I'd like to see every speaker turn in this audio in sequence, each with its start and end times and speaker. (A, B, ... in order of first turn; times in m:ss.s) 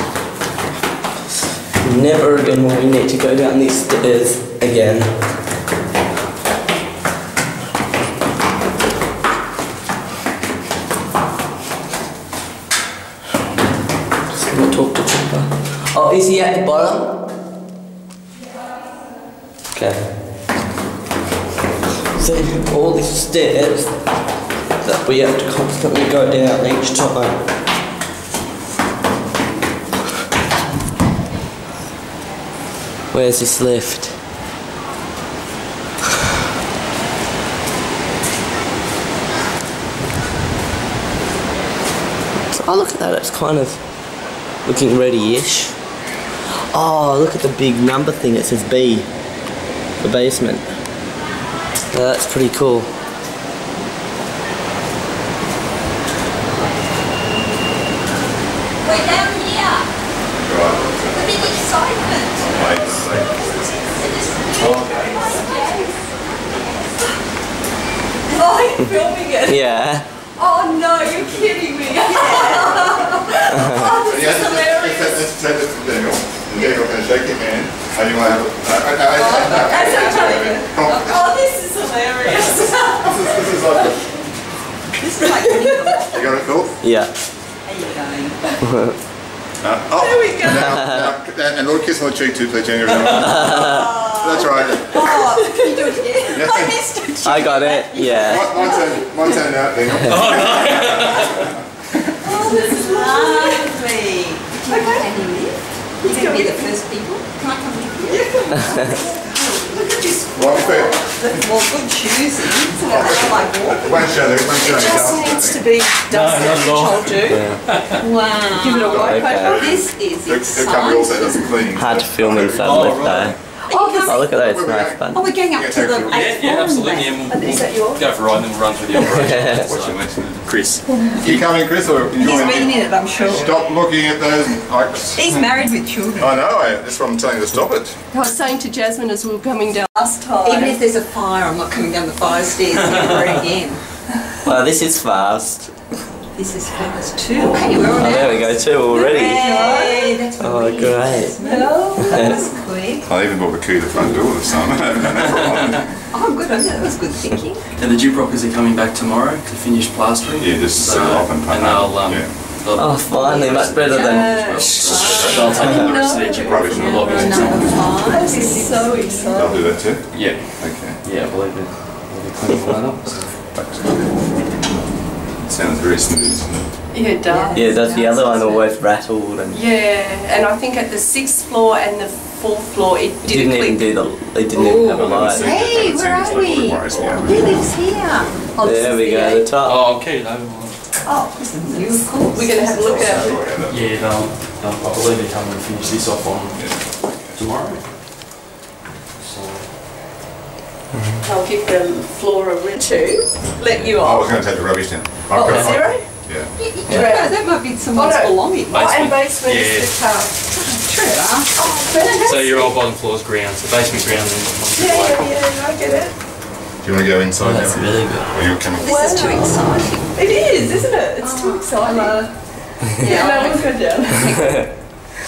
0:01.8-0:05.1 A
0:14.3-0:17.2 A
0:19.7-0:20.1 A
0:22.1-0:24.0 A
0:24.8-0:27.4 A
0:33.1-0:34.2 A
0:42.5-0:44.1 A
0:44.6-0:45.8 A
0:46.7-0:49.1 A
0:50.0-0:50.7 A
0:51.9-0:52.9 A
0:58.8-0:59.9 B
1:00.3-1:01.7 C
1:01.1-1:02.6 B
1:02.3-1:03.6 C
1:03.4-1:07.0 B
1:04.6-1:05.5 D
1:05.0-1:06.0 E
1:08.3-1:09.8 E
1:08.3-1:08.7 B
1:09.4-1:10.0 A
1:10.4-1:15.2 B
1:11.1-1:14.5 E
1:14.0-1:21.3 C
1:19.1-1:23.1 B
1:19.6-1:20.8 E
1:22.2-1:23.1 E
1:23.0-1:24.0 C
1:25.0-1:26.7 B
1:26.1-1:26.7 C
1:26.8-1:27.1 A
1:27.6-1:28.4 B
1:28.6-1:29.0 A
1:29.6-1:33.5 C
1:29.9-1:30.8 E
1:30.6-1:31.1 A
1:33.2-1:33.8 A
1:33.2-1:39.2 B
1:34.1-1:35.2 C
1:34.9-1:36.5 E
1:36.3-1:36.9 C
1:37.2-1:38.6 A
1:38.1-1:41.6 C
1:40.0-1:41.5 D
1:42.2-1:56.7 B
1:42.2-1:43.8 E
1:44.7-1:45.1 E
1:46.0-1:46.8 E
1:48.1-1:49.2 E
1:50.4-1:51.1 C
1:52.8-1:55.6 C
1:54.9-1:57.4 E
1:56.1-1:58.0 D
1:57.3-1:57.6 A
1:57.9-2:01.6 B
1:58.5-1:59.6 E
1:58.7-2:03.3 C
1:58.9-1:59.7 A
2:01.8-2:03.4 A
2:02.6-2:03.4 D
2:03.7-2:04.4 B
2:03.7-2:04.1 E
2:04.0-2:05.3 A
2:04.3-2:06.5 C
2:05.1-2:07.3 B
2:06.1-2:11.4 D
2:07.3-2:08.2 E
2:09.1-2:09.7 A
2:09.3-2:10.5 C
2:11.1-2:15.5 C
2:12.2-2:13.6 B
2:12.6-2:13.5 E
2:15.2-2:16.4 B
2:16.2-2:18.0 C
2:18.1-2:20.8 E
2:20.3-2:23.9 B
2:24.4-2:25.7 A
2:26.4-2:33.1 B
2:27.3-2:27.7 E
2:27.9-2:29.6 A
2:29.2-2:30.2 E
2:30.4-2:31.4 A
2:31.4-2:32.4 E
2:33.0-2:36.1 C
2:35.3-2:35.8 D
2:36.1-2:37.6 B
2:37.8-2:48.1 D
2:40.3-2:42.4 C
2:42.8-2:44.6 A
2:43.2-2:45.7 B
2:44.3-2:49.8 E
2:44.9-2:47.6 C
2:46.8-2:49.5 B
2:49.3-2:51.0 C
2:50.1-2:53.5 D
2:53.4-2:54.0 C
2:55.4-2:56.7 C
2:56.9-2:57.9 E
2:57.2-2:58.4 B
2:57.5-2:59.6 A
2:59.5-3:03.9 E
3:03.2-3:05.5 A
3:04.5-3:08.3 B
3:04.6-3:08.4 C
3:08.6-3:09.5 E
3:08.6-3:09.8 A
3:09.6-3:10.8 D
3:11.0-3:13.4 B
3:11.7-3:13.4 E
3:12.8-3:14.1 C
3:13.6-3:17.9 D
3:16.5-3:17.4 C
3:19.2-3:19.7 D
3:21.0-3:21.2 A
3:21.2-3:24.3 E
3:23.6-3:24.0 D
3:24.0-3:26.5 C
3:25.3-3:26.1 E
3:25.4-3:25.9 D
3:26.4-3:28.9 B
3:26.9-3:30.7 E
3:28.7-3:30.0 D
3:30.5-3:32.5 B
3:31.5-3:32.7 E
3:32.2-3:35.3 D
3:34.7-3:36.2 E
3:36.8-3:39.1 C
3:37.4-3:38.3 A
3:38.8-3:40.5 B
3:38.8-3:44.8 E
3:41.2-3:43.8 B